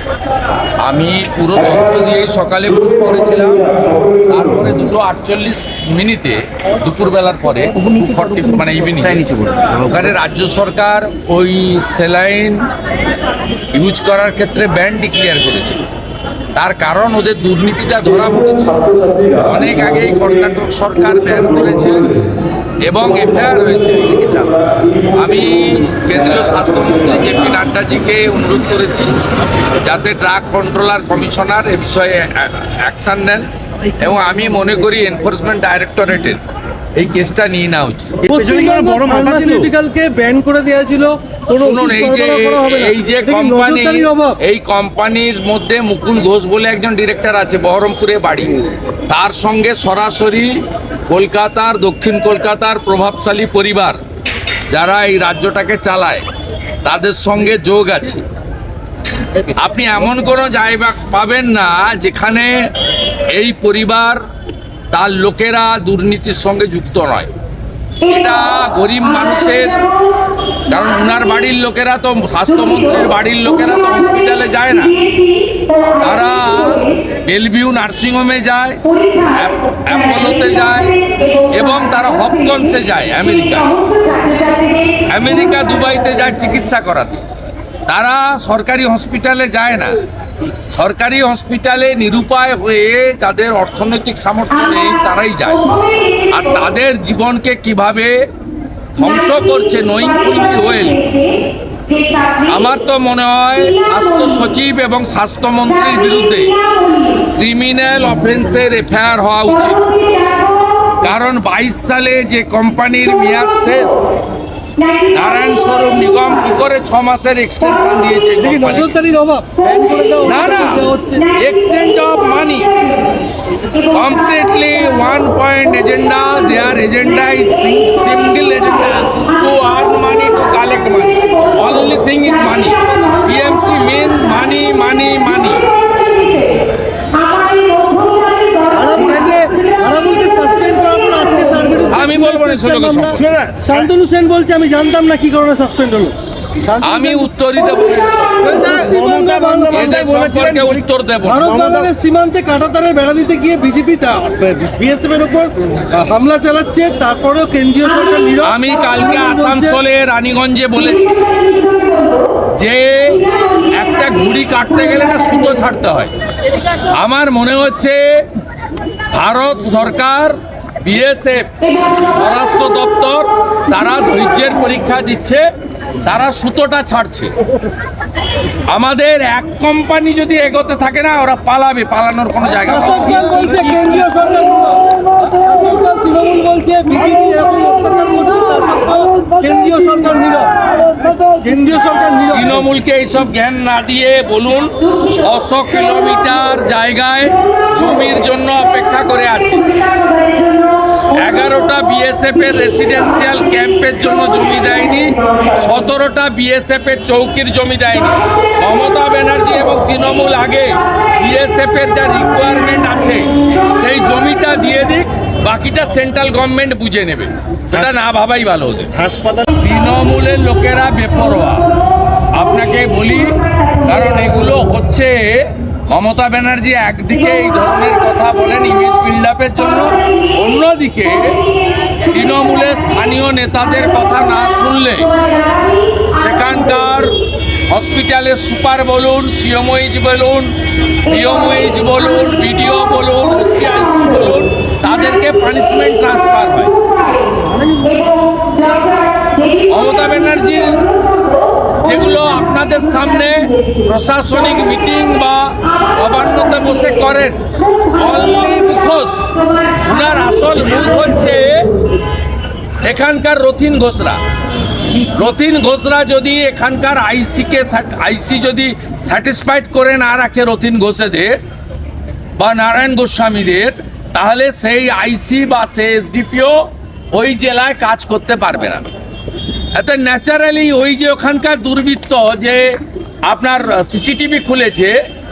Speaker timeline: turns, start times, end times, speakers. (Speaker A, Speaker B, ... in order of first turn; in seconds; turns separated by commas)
Speaker A: 0.8-12.7, Speaker A: 13.7-15.8, Speaker A: 16.6-22.1, Speaker A: 22.9-29.1, Speaker A: 29.8-33.5, Speaker A: 34.0-36.4, Speaker A: 37.0-38.3, Speaker B: 38.2-39.7, Speaker C: 38.3-44.4, Speaker A: 41.6-48.6, Speaker A: 49.1-50.5, Speaker A: 51.1-54.0, Speaker A: 54.7-56.2, Speaker A: 56.8-58.2, Speaker A: 59.5-62.6, Speaker A: 63.3-64.2, Speaker A: 64.9-67.3, Speaker A: 68.0-70.1, Speaker A: 70.7-75.4, Speaker A: 75.9-87.2, Speaker A: 87.9-90.0, Speaker A: 90.7-98.2, Speaker A: 99.0-101.3, Speaker A: 102.0-110.4, Speaker A: 111.0-114.1, Speaker A: 114.9-118.9, Speaker C: 118.4-121.2, Speaker A: 120.3-122.9, Speaker A: 123.8-135.7, Speaker C: 138.7-147.3, Speaker A: 141.9-143.3, Speaker B: 143.2-143.9, Speaker A: 146.8-148.5, Speaker C: 148.4-149.9, Speaker B: 148.5-150.8, Speaker A: 149.7-151.5, Speaker C: 151.2-159.8, Speaker B: 151.5-151.9, Speaker A: 158.4-161.8, Speaker A: 162.6-166.1, Speaker A: 166.9-168.0, Speaker A: 169.1-175.4, Speaker A: 176.1-177.3, Speaker A: 178.7-184.2, Speaker C: 182.6-192.6, Speaker A: 192.3-199.7, Speaker A: 201.1-218.9, Speaker B: 219.0-219.5, Speaker A: 219.5-221.7, Speaker A: 222.3-237.1, Speaker A: 237.7-240.5, Speaker A: 241.1-246.8, Speaker A: 249.7-251.0, Speaker A: 251.8-261.7, Speaker A: 262.8-264.2, Speaker A: 265.0-271.4, Speaker A: 272.4-276.6, Speaker A: 277.1-278.9, Speaker A: 279.8-282.7, Speaker A: 283.3-285.0